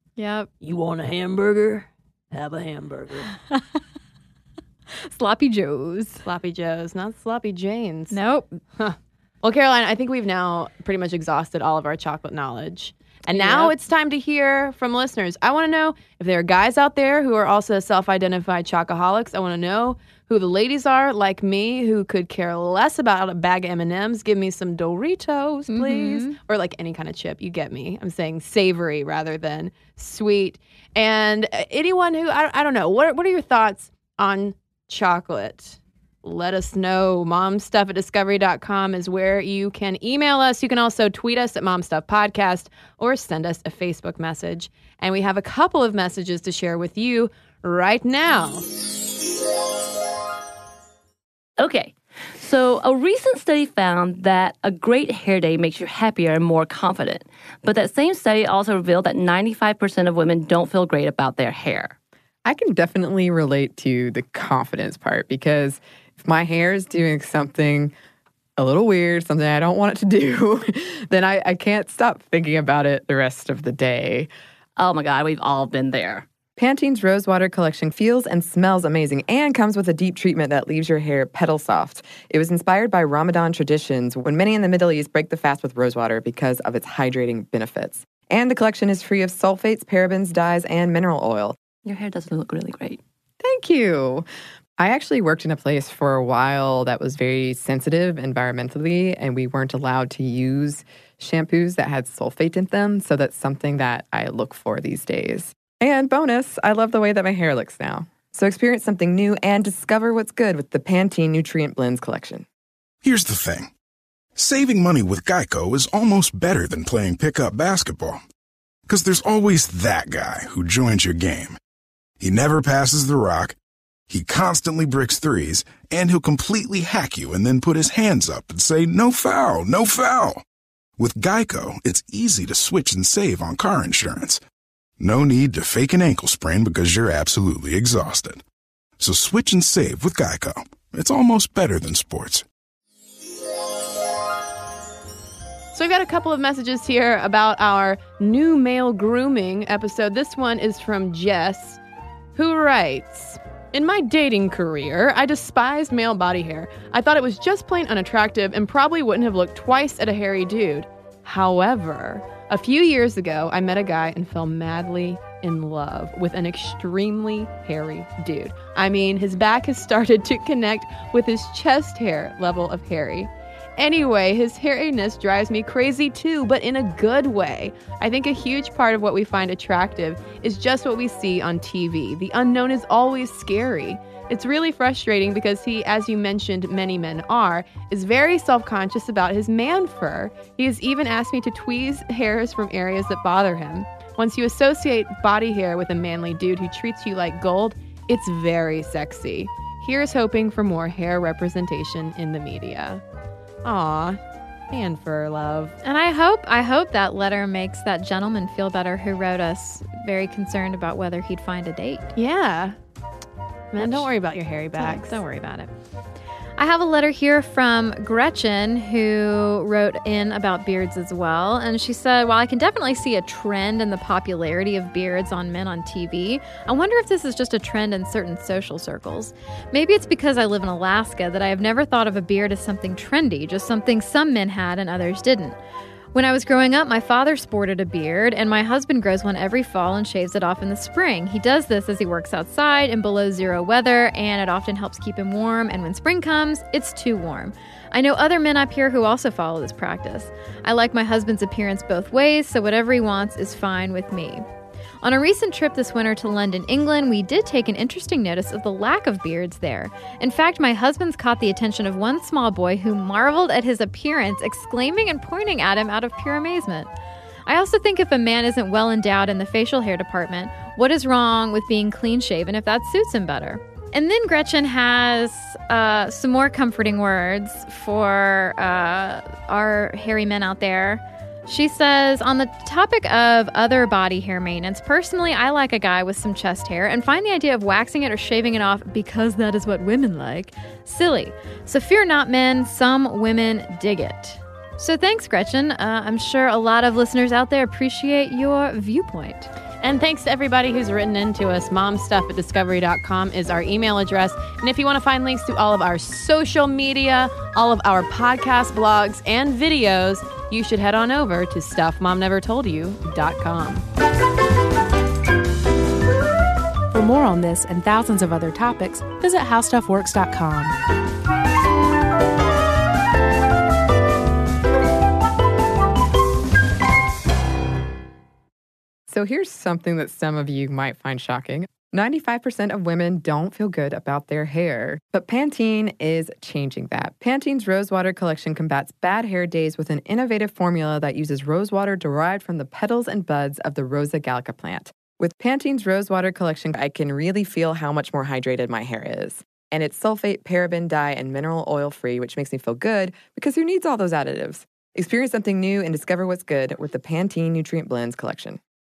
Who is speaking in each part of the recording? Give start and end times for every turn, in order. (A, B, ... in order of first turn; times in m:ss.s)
0:00.2-0:00.5 A
0:00.6-0:03.3 B
0:05.0-0:06.2 A
0:06.2-0:08.2 B
0:08.1-0:08.6 A
0:08.8-0:48.6 B
0:13.3-0:13.7 A
0:25.7-0:26.3 A
0:51.6-1:01.9 C
1:02.4-1:07.9 D
1:08.6-1:14.3 D
1:14.8-1:16.2 C
1:16.6-1:31.6 D
1:31.8-1:33.0 C
1:33.4-1:34.2 D
1:34.8-1:52.4 D
1:53.0-1:53.7 E
1:54.4-1:58.2 E
1:58.9-2:01.6 E
2:02.2-2:03.6 E
2:04.1-2:10.4 E
2:11.0-2:14.4 E
2:15.0-2:18.4 E
2:19.0-2:22.4 E
2:25.7-2:31.8 B
2:32.4-3:23.0 B
3:23.6-3:24.2 B
3:24.7-3:25.7 B
3:25.8-3:32.1 A
3:32.2-3:32.8 B
3:33.7-3:35.2 B
3:33.8-3:34.1 A
3:34.8-3:35.7 A
3:36.6-3:55.6 A
3:56.1-4:14.4 A
4:15.0-4:26.9 A
4:27.4-4:59.5 A
4:59.8-5:13.8 B
5:16.9-5:20.8 F
5:29.1-5:58.6 D